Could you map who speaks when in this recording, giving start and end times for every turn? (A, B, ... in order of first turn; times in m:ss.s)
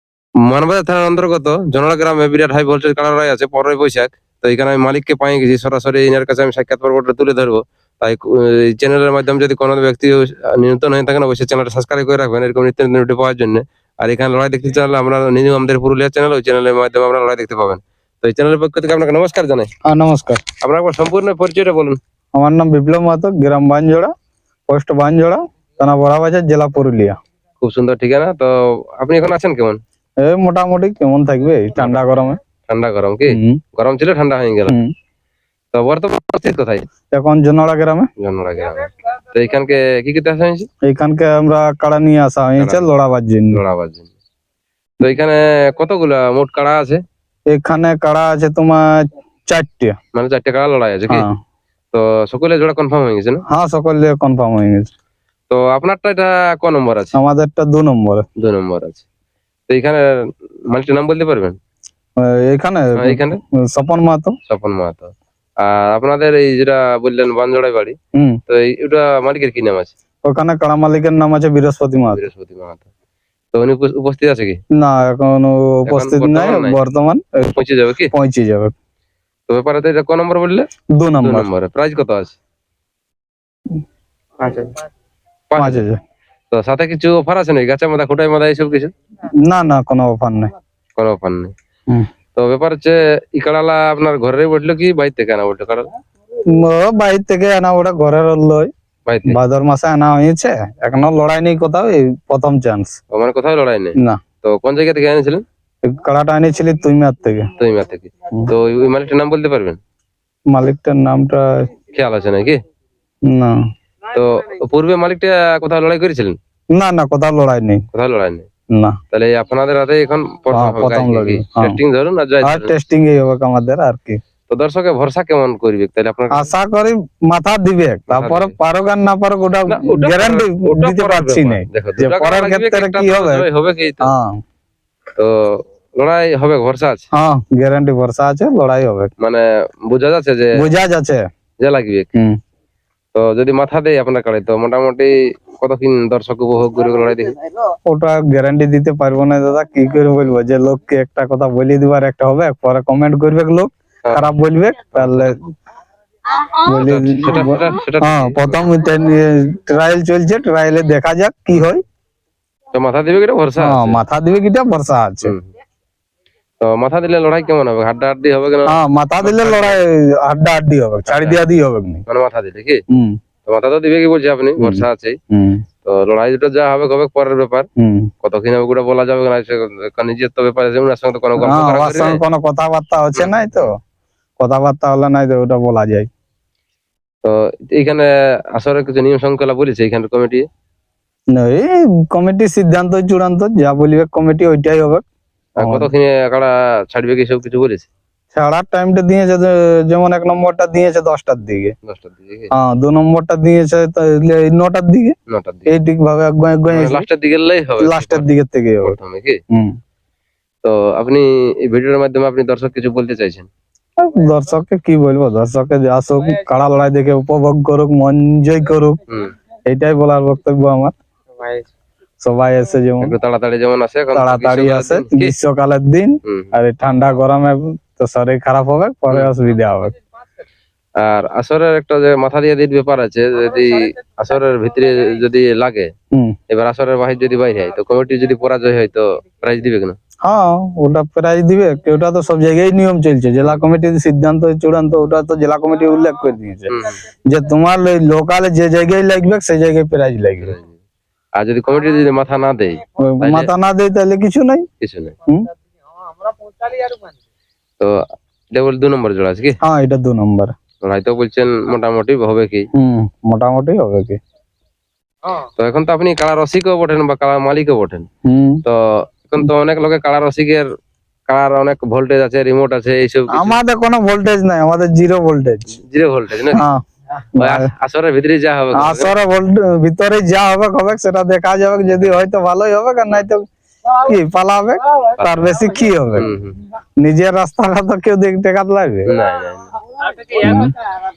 0:00.4-0:19.7 A
0:19.8-0:20.4 B
0:20.6-0:22.0 A
0:22.3-0:24.1 B
0:24.7-0:27.2 B
0:27.6-0:29.8 A
0:30.2-0:32.4 B
0:32.7-0:34.8 A
0:33.3-0:33.6 B
0:34.7-0:34.9 B
0:35.7-0:36.8 A
0:37.1-0:38.1 B
0:38.2-0:40.7 A
0:40.8-0:43.6 B
0:42.6-0:42.8 A
0:43.5-0:44.1 A
0:45.0-0:47.0 A
0:47.5-0:50.0 B
0:50.1-0:51.3 A
0:51.1-0:51.4 B
0:51.9-0:53.4 A
0:53.5-0:54.9 B
0:55.5-0:57.2 A
0:57.1-0:58.2 B
0:58.4-0:59.0 A
0:59.7-1:01.6 A
1:02.2-1:04.3 B
1:03.0-1:03.4 A
1:04.5-1:08.0 A
1:08.1-1:08.4 B
1:08.5-1:09.9 A
1:10.2-1:12.2 B
1:12.1-1:12.8 A
1:13.5-1:14.6 A
1:14.7-1:17.5 B
1:15.8-1:16.8 A
1:17.5-1:18.1 A
1:18.1-1:18.7 B
1:19.5-1:20.7 A
1:21.0-1:21.5 B
1:21.2-1:22.4 A
1:24.4-1:24.7 A
1:25.5-1:25.8 A
1:25.6-1:26.0 B
1:26.5-1:28.9 A
1:29.4-1:30.5 B
1:31.0-1:31.5 A
1:32.3-1:35.9 A
1:36.5-1:38.7 B
1:39.0-1:39.4 A
1:39.3-1:43.0 B
1:43.1-1:45.4 A
1:45.8-1:47.5 B
1:47.6-1:49.8 A
1:50.5-1:51.7 B
1:51.9-1:52.6 A
1:53.2-1:53.6 B
1:54.1-1:56.4 A
1:56.7-1:57.8 B
1:57.9-1:58.5 A
1:58.7-1:59.0 B
1:59.1-2:02.7 A
2:00.5-2:01.8 B
2:02.4-2:04.2 B
2:04.5-2:06.5 A
2:06.3-2:13.4 B
2:08.1-2:08.6 A
2:09.7-2:14.1 A
2:14.0-2:14.4 B
2:15.2-2:17.0 A
2:17.1-2:19.1 B
2:19.2-2:20.6 A
2:20.6-2:21.2 B
2:21.6-2:22.1 A
2:23.1-2:27.4 A
2:27.9-2:35.5 B
2:34.9-2:35.4 A
2:36.6-2:41.8 B
2:36.7-2:38.6 A
2:42.7-2:44.0 A
2:43.6-2:45.4 B
2:45.2-2:45.5 A
2:46.6-2:49.8 A
2:48.6-2:52.0 B
2:51.1-2:51.4 A
2:52.1-2:52.8 A
2:52.9-2:53.2 B
2:53.4-2:55.2 A
2:54.6-2:55.6 B
2:55.8-2:57.7 A
2:57.8-2:58.1 B
2:58.2-3:02.2 A
3:01.4-3:03.8 B
3:03.1-3:03.7 A
3:04.4-3:06.1 B
3:07.2-3:10.4 A
3:11.3-3:15.0 B
3:15.6-3:17.9 A
3:15.6-3:15.9 B
3:18.3-3:21.7 B
3:21.8-3:22.5 A
3:22.5-3:25.1 B
3:25.3-3:25.7 A
3:25.7-3:27.0 B
3:26.7-3:28.3 A
3:27.8-3:29.0 B
3:28.8-3:29.4 A
3:29.5-3:29.8 B
3:30.6-3:33.5 A
3:34.0-3:39.0 B
3:39.1-3:39.3 A
3:39.7-3:40.9 B
3:42.2-3:43.1 B
3:43.0-3:45.3 A
3:44.1-3:49.9 B
3:46.2-3:46.5 A
3:51.0-3:55.9 A
3:56.5-4:00.0 A
4:00.2-4:10.6 B
4:06.7-4:07.0 A
4:10.4-4:10.8 A
4:11.4-4:13.5 A
4:13.0-4:14.6 B
4:14.8-4:15.2 A
4:17.8-4:19.6 A
4:19.6-4:20.5 B
4:20.8-4:22.7 A
4:22.7-4:24.2 B
4:25.4-4:28.1 A
4:28.2-4:28.6 B
4:28.6-4:30.7 A
4:31.3-4:33.6 A
4:33.3-4:35.7 B
4:35.7-4:36.6 A
4:36.5-4:36.8 B
4:37.3-4:37.7 B
4:37.4-4:39.1 A
4:38.7-4:46.4 B
4:46.2-4:46.6 A
4:47.0-4:49.1 B
4:49.1-4:50.7 A
4:50.4-4:50.8 B